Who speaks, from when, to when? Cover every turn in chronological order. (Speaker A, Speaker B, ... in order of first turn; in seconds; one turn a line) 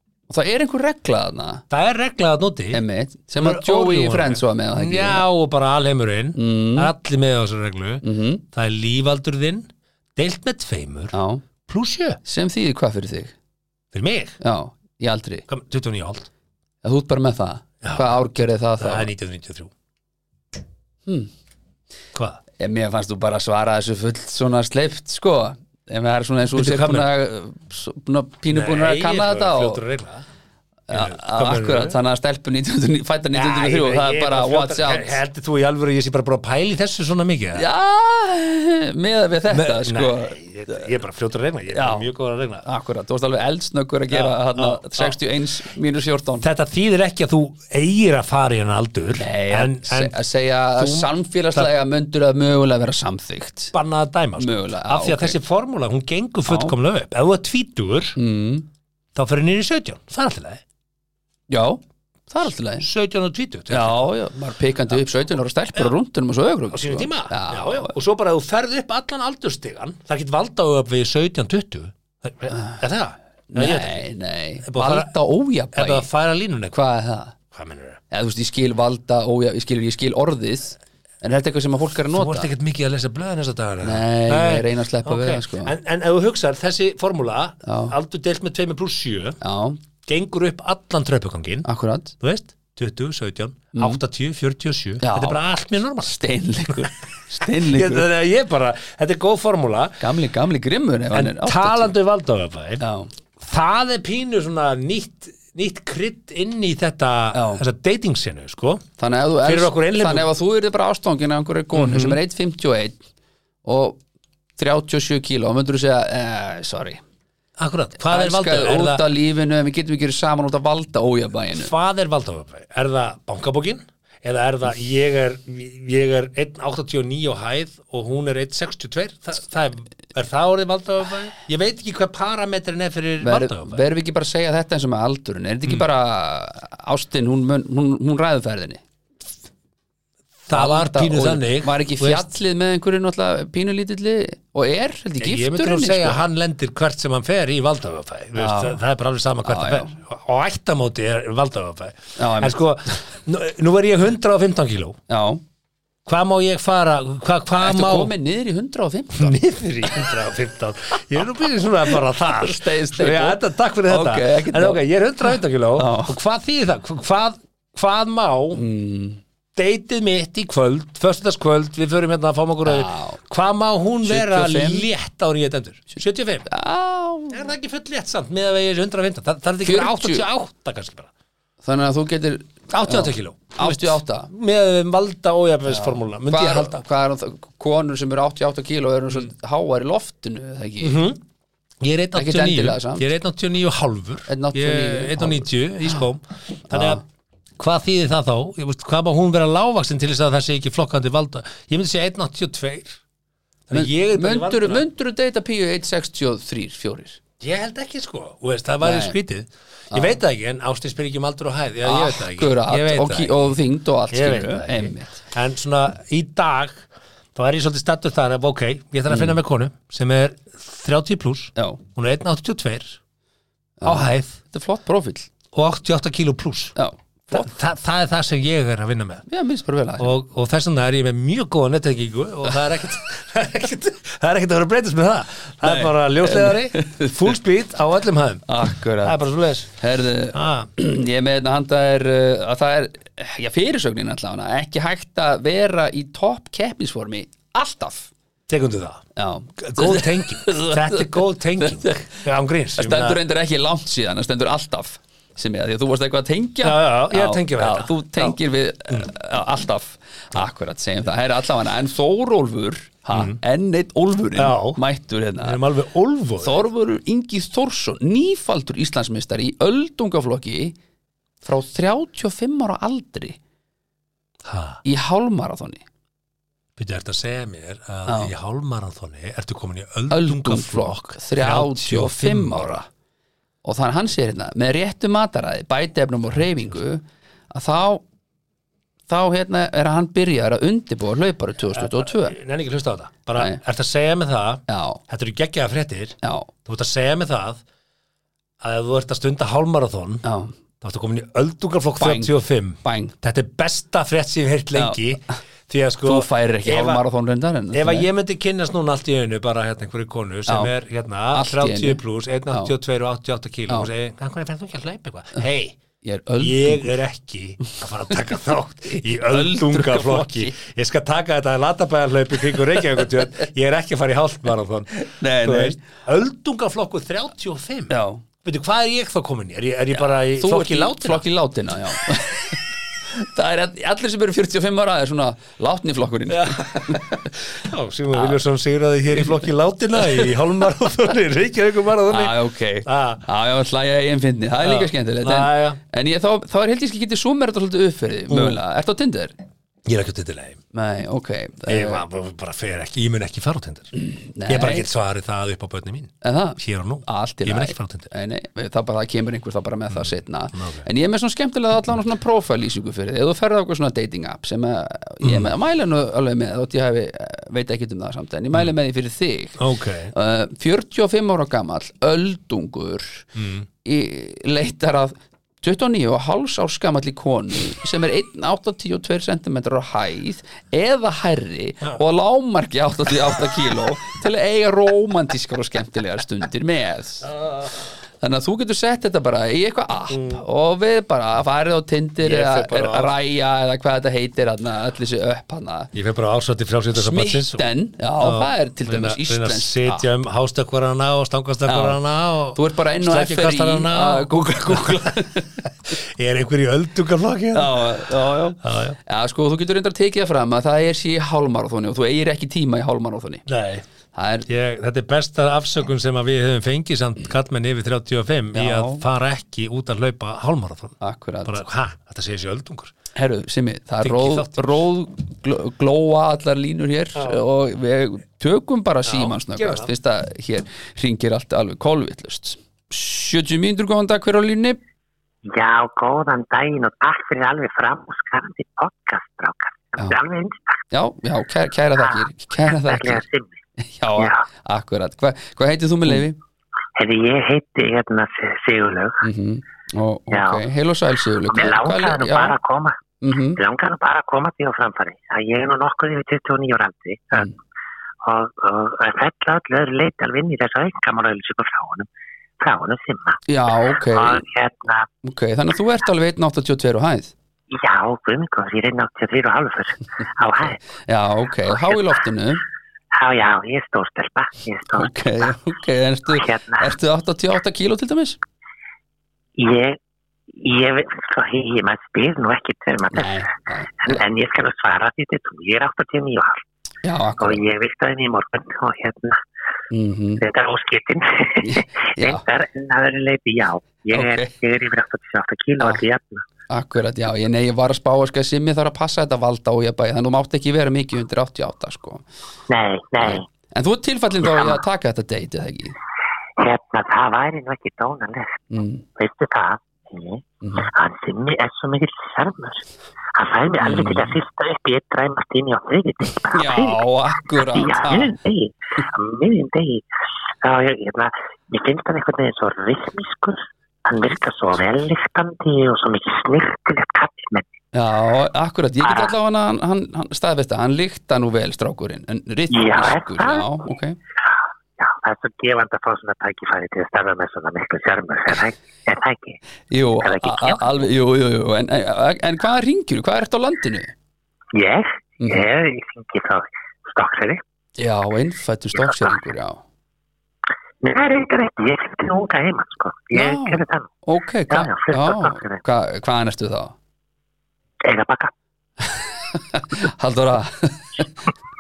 Speaker A: 0.3-1.6
Speaker B: 1.7-2.8
Speaker A: 2.7-5.2
Speaker B: 3.4-12.2
Speaker A: 6.3-6.9
Speaker A: 8.0-8.4
Speaker A: 11.1-11.4
Speaker A: 12.2-13.3
Speaker B: 13.9-14.4
Speaker A: 14.4-15.5
Speaker B: 15.5-16.3
Speaker A: 16.8-19.1
Speaker B: 17.8-18.2
Speaker B: 18.8-19.7
Speaker A: 21.1-21.3
Speaker B: 22.1-22.4
Speaker A: 22.6-29.8
Speaker B: 26.5-27.1
Speaker B: 28.5-30.2
Speaker A: 30.9-35.2
Speaker B: 30.9-32.0
Speaker B: 33.3-37.7
Speaker A: 37.5-40.9
Speaker B: 39.5-42.7
Speaker A: 41.7-42.1
Speaker A: 42.6-46.5
Speaker B: 44.1-45.2
Speaker B: 46.4-50.2
Speaker A: 49.2-53.7
Speaker B: 50.8-51.7
Speaker B: 53.7-58.2
Speaker A: 54.4-55.4
Speaker A: 56.5-56.7
Speaker A: 58.2-58.7
Speaker B: 59.1-60.6
Speaker A: 61.5-62.9
Speaker B: 62.8-64.1
Speaker A: 63.7-67.9
Speaker B: 66.7-74.1
Speaker A: 72.5-72.8
Speaker A: 73.5-76.1
Speaker B: 74.6-75.1
Speaker B: 75.7-76.8
Speaker A: 76.7-77.3
Speaker B: 77.5-78.0
Speaker A: 78.1-82.5
Speaker B: 82.1-89.4
Speaker A: 83.8-85.7
Speaker A: 87.6-88.0
Speaker A: 89.4-89.8
Speaker B: 90.0-91.7
Speaker A: 91.7-92.1
Speaker B: 92.2-96.2
Speaker A: 93.8-94.0
Speaker A: 95.0-95.4
Speaker A: 96.0-98.1
Speaker B: 97.4-100.1
Speaker A: 100.0-102.0
Speaker B: 101.1-102.9
Speaker A: 102.8-103.1
Speaker B: 103.4-108.9
Speaker A: 107.3-107.6
Speaker A: 109.0-113.0
Speaker B: 109.4-110.3
Speaker B: 111.7-112.2
Speaker A: 113.7-114.0
Speaker A: 114.6-117.0
Speaker B: 117.6-119.1
Speaker A: 118.1-121.7
Speaker B: 121.5-133.8
Speaker A: 133.2-138.8
Speaker B: 140.5-142.2
Speaker A: 140.5-146.2
Speaker B: 145.2-155.0
Speaker A: 148.4-148.8
Speaker A: 149.4-149.9
Speaker A: 152.2-153.0
Speaker A: 155.1-155.4
Speaker B: 156.1-158.1
Speaker A: 157.6-160.1
Speaker B: 159.2-168.6
Speaker A: 161.9-166.2
Speaker A: 168.5-169.2
Speaker B: 169.6-176.5
Speaker A: 172.7-173.2
Speaker A: 174.0-174.9
Speaker A: 176.5-177.5
Speaker B: 177.3-181.1
Speaker A: 179.6-180.3
Speaker A: 181.6-184.3
Speaker B: 182.7-186.8
Speaker A: 185.7-191.1
Speaker B: 190.8-191.2
Speaker B: 191.8-197.0
Speaker A: 192.2-193.1
Speaker A: 194.3-196.1
Speaker A: 196.7-197.0
Speaker B: 197.6-203.0
Speaker B: 203.7-204.8
Speaker A: 203.7-207.2
Speaker B: 207.4-213.5
Speaker A: 208.8-209.2
Speaker A: 209.9-210.2
Speaker A: 211.8-215.2
Speaker B: 214.1-223.0
Speaker A: 219.1-219.4
Speaker A: 223.8-225.3
Speaker B: 223.8-224.4
Speaker B: 225.5-226.8
Speaker A: 226.8-227.5
Speaker B: 227.3-229.3
Speaker A: 229.3-230.2
Speaker B: 230.0-239.7
Speaker A: 235.6-237.3
Speaker A: 238.5-239.2
Speaker A: 239.7-248.1
Speaker B: 240.3-240.7
Speaker B: 248.5-249.0
Speaker A: 249.2-252.1
Speaker B: 249.6-253.2
Speaker A: 252.8-265.6
Speaker B: 256.6-258.4
Speaker B: 263.1-263.4
Speaker B: 264.4-264.8
Speaker B: 265.4-266.6
Speaker A: 266.4-270.8
Speaker A: 271.4-273.4
Speaker B: 274.5-274.8
Speaker A: 274.9-275.8
Speaker B: 276.8-282.8
Speaker A: 278.1-278.3
Speaker A: 280.1-282.9
Speaker A: 283.6-288.0
Speaker A: 289.1-292.4
Speaker B: 291.7-297.6
Speaker A: 294.7-295.0
Speaker A: 296.2-296.5
Speaker B: 298.6-300.2
Speaker A: 300.2-300.5
Speaker B: 300.8-307.0
Speaker A: 302.0-302.3
Speaker A: 302.8-303.1
Speaker A: 304.7-305.0
Speaker A: 306.0-308.1
Speaker B: 307.7-315.8
Speaker A: 310.5-310.7
Speaker A: 311.3-312.7
Speaker A: 316.0-316.9
Speaker B: 316.4-331.2
Speaker A: 319.2-320.6
Speaker A: 325.0-325.8
Speaker A: 327.9-328.2
Speaker A: 329.9-337.1
Speaker B: 336.3-343.2
Speaker A: 338.1-338.4
Speaker A: 339.9-340.4
Speaker A: 342.1-349.3
Speaker B: 344.6-345.8
Speaker B: 348.3-348.6
Speaker B: 349.9-350.6
Speaker A: 350.7-352.0
Speaker B: 351.7-353.9
Speaker A: 354.0-354.9
Speaker B: 354.4-358.1
Speaker A: 356.2-369.6
Speaker B: 359.9-360.9
Speaker B: 365.2-365.5
Speaker B: 369.6-370.1
Speaker A: 370.1-373.3
Speaker B: 373.4-373.7
Speaker A: 373.8-387.3
Speaker B: 387.2-387.9
Speaker A: 388.2-395.9
Speaker B: 390.1-390.4
Speaker B: 392.2-393.1
Speaker B: 395.9-397.6
Speaker A: 396.9-400.1
Speaker B: 398.2-409.0
Speaker A: 401.7-402.0
Speaker A: 402.6-405.5
Speaker A: 407.5-413.4
Speaker B: 413.5-413.8
Speaker A: 414.1-414.5
Speaker B: 414.5-422.9
Speaker A: 418.5-419.0
Speaker A: 421.0-421.6
Speaker A: 423.1-434.8
Speaker B: 424.0-424.8
Speaker B: 427.1-427.5
Speaker B: 429.1-429.9
Speaker C: 435.5-440.8
Speaker A: 440.9-443.2
Speaker C: 442.0-443.6
Speaker A: 443.8-446.4
Speaker C: 444.2-444.4
Speaker C: 447.0-449.2
Speaker A: 449.2-452.6
Speaker C: 450.3-450.6
Speaker C: 451.5-452.9
Speaker A: 453.2-453.6
Speaker C: 453.6-457.5
Speaker C: 458.2-462.1
Speaker C: 462.6-463.4
Speaker A: 463.5-464.4
Speaker C: 464.1-465.1
Speaker A: 465.2-467.3
Speaker C: 467.7-470.8
Speaker A: 471.1-472.6
Speaker C: 471.7-472.1
Speaker C: 473.1-475.6
Speaker A: 474.9-478.4
Speaker C: 476.3-476.9
Speaker C: 479.6-480.0
Speaker C: 480.5-483.4
Speaker A: 483.1-484.2
Speaker C: 484.0-486.6
Speaker A: 487.0-487.6
Speaker C: 487.4-489.4
Speaker A: 489.9-490.4
Speaker C: 490.4-496.5
Speaker A: 491.6-492.4
Speaker A: 494.1-494.5
Speaker A: 496.7-502.3
Speaker C: 502.7-503.5
Speaker A: 503.2-506.0
Speaker C: 504.5-504.8
Speaker C: 506.6-517.0
Speaker A: 508.7-509.1
Speaker A: 510.6-510.9
Speaker A: 513.8-514.4
Speaker A: 516.5-518.4
Speaker C: 517.6-520.1
Speaker C: 520.6-527.7
Speaker A: 527.9-534.2
Speaker C: 529.0-529.3
Speaker C: 532.7-533.8
Speaker C: 534.5-539.6
Speaker A: 539.9-544.1
Speaker C: 540.2-540.9
Speaker C: 544.7-547.6
Speaker A: 545.4-545.7
Speaker A: 548.0-549.8
Speaker C: 549.0-549.4
Speaker C: 551.0-554.1
Speaker A: 553.3-557.0
Speaker C: 554.7-555.8
Speaker C: 558.0-558.5
Speaker A: 559.1-561.5